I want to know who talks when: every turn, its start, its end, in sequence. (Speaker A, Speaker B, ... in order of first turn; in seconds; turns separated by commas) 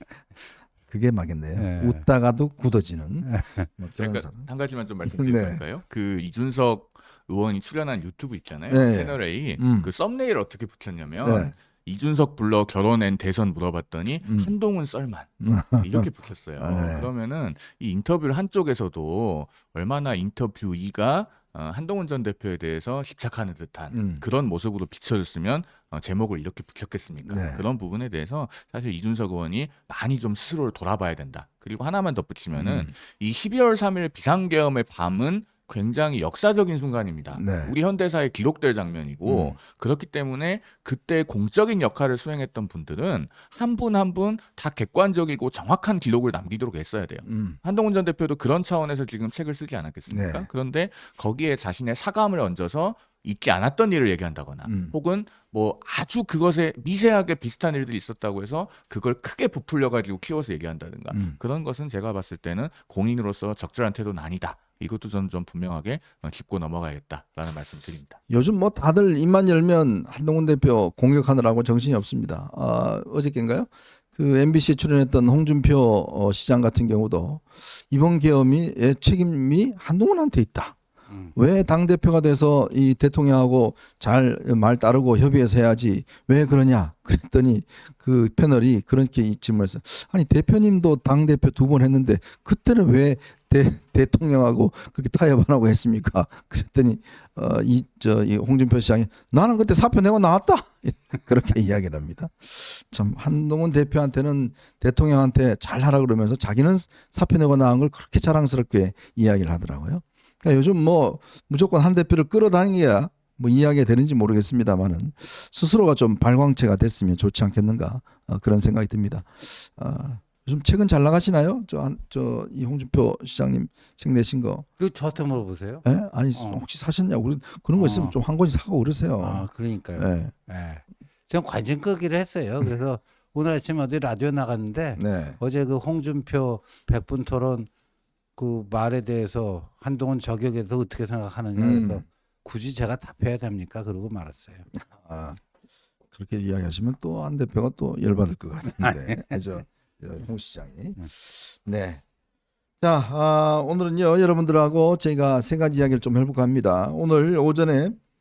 Speaker A: 0.9-4.5, Speaker B: 1.5-2.0, Speaker B: 3.2-3.7, Speaker C: 3.9-68.2, Speaker A: 5.0-5.6, Speaker A: 8.7-9.9, Speaker A: 11.2-11.5, Speaker A: 14.2-14.5, Speaker A: 15.4-17.1, Speaker A: 23.9-24.2, Speaker A: 27.2-27.7, Speaker A: 32.5-32.9, Speaker A: 37.3-37.7, Speaker A: 39.2-39.6, Speaker A: 47.2-47.6, Speaker A: 50.1-50.5, Speaker A: 54.6-54.9, Speaker A: 61.1-61.4, Speaker A: 68.3-80.8, Speaker B: 81.1-81.3, Speaker A: 81.3-124.7, Speaker B: 124.8-126.6, Speaker A: 125.8-130.3, Speaker B: 127.7-128.2, Speaker B: 129.2-137.7, Speaker A: 134.9-135.4, Speaker B: 138.3-144.7, Speaker A: 141.6-142.0, Speaker A: 144.9-145.4, Speaker A: 146.1-152.0, Speaker B: 148.8-149.4, Speaker A: 152.8-158.0